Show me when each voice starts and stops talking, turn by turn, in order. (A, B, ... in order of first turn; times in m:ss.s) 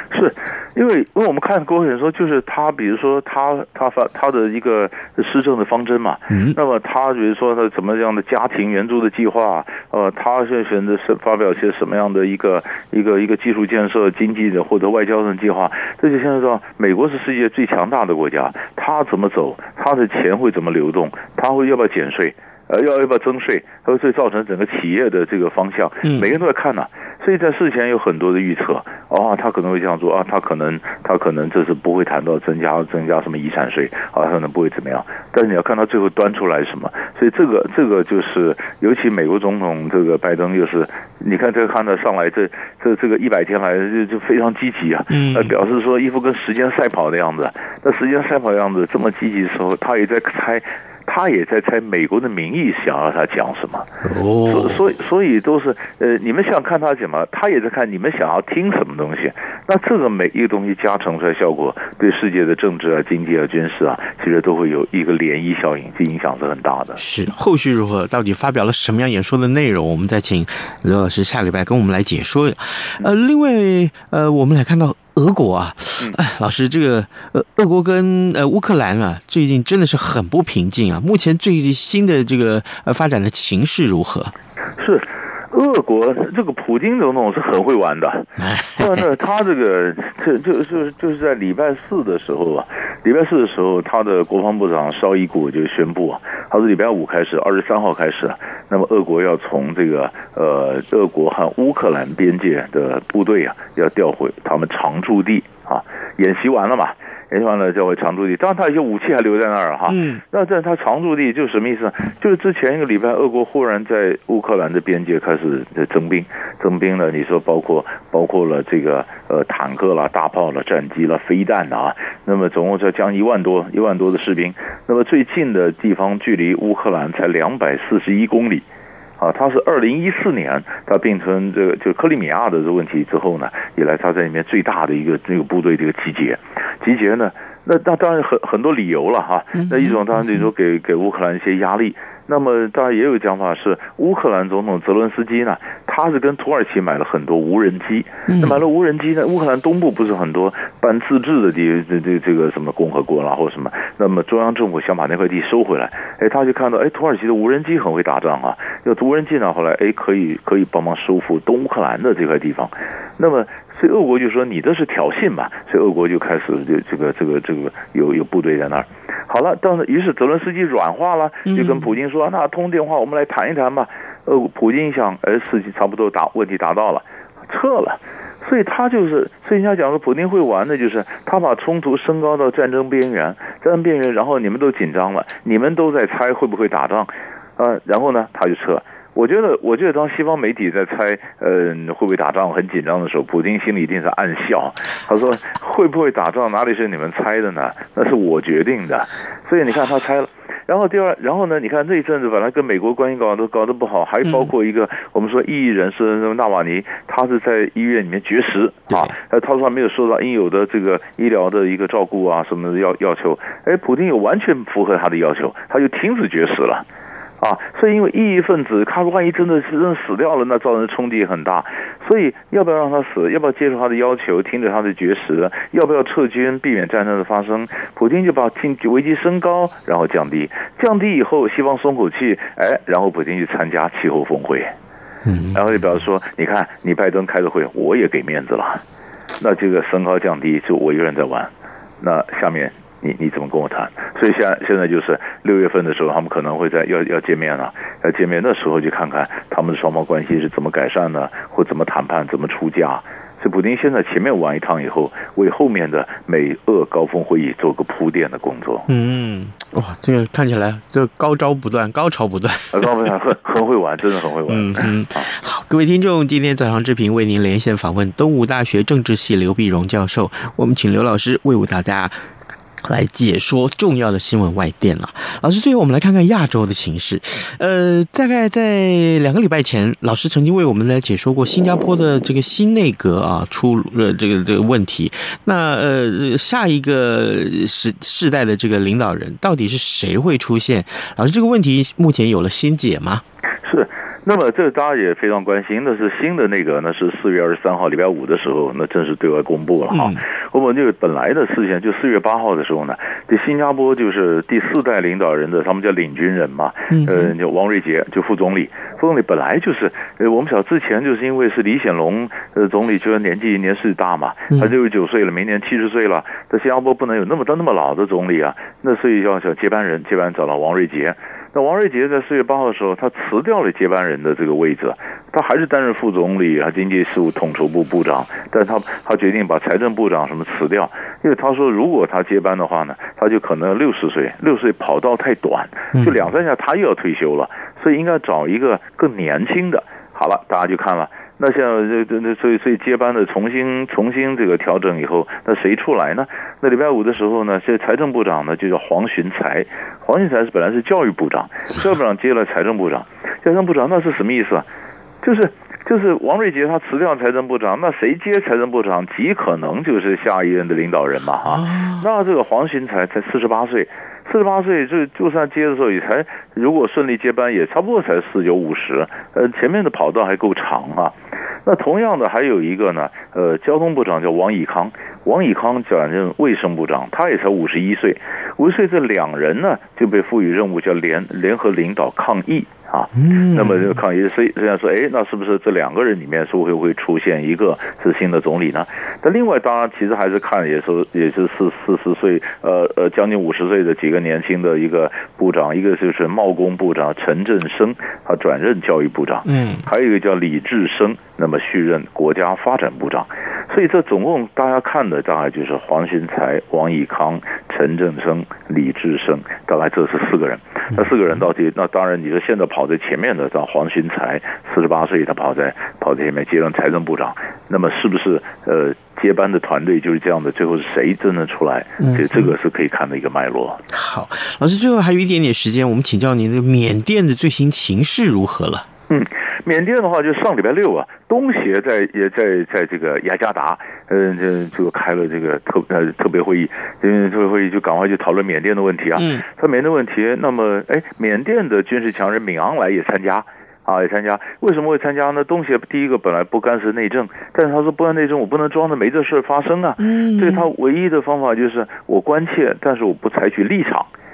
0:00.1-0:53.9 A
0:06.3-0:06.6 B
0:26.0-0:26.3 B
0:45.1-0:45.5 B
0:54.0-0:54.8 B
0:54.5-1:07.0 A
1:07.0-1:24.3 B
1:24.8-2:08.6 A
1:28.4-1:29.0 B
1:49.9-1:50.2 B
2:09.2-3:36.8 A
2:19.6-2:20.5 B
2:28.3-2:28.6 B
2:51.5-2:51.9 B
3:37.4-3:54.7 A
3:55.2-3:55.6 B
3:55.5-3:58.8 A
3:59.4-4:18.9 A
4:18.9-4:22.9 B
4:22.7-4:25.3 A
4:24.5-4:32.2 B
4:32.8-4:53.2 B
4:53.6-5:54.7 A
4:59.9-5:00.2 B
5:06.9-5:07.3 B
5:55.2-7:03.8 A
6:01.6-6:02.0 B
6:23.2-6:24.0 B
6:39.5-6:39.8 B
7:02.0-7:02.5 B
7:03.9-7:08.9 B
7:09.1-7:34.1 A
7:19.2-7:19.4 B
7:30.0-7:30.7 B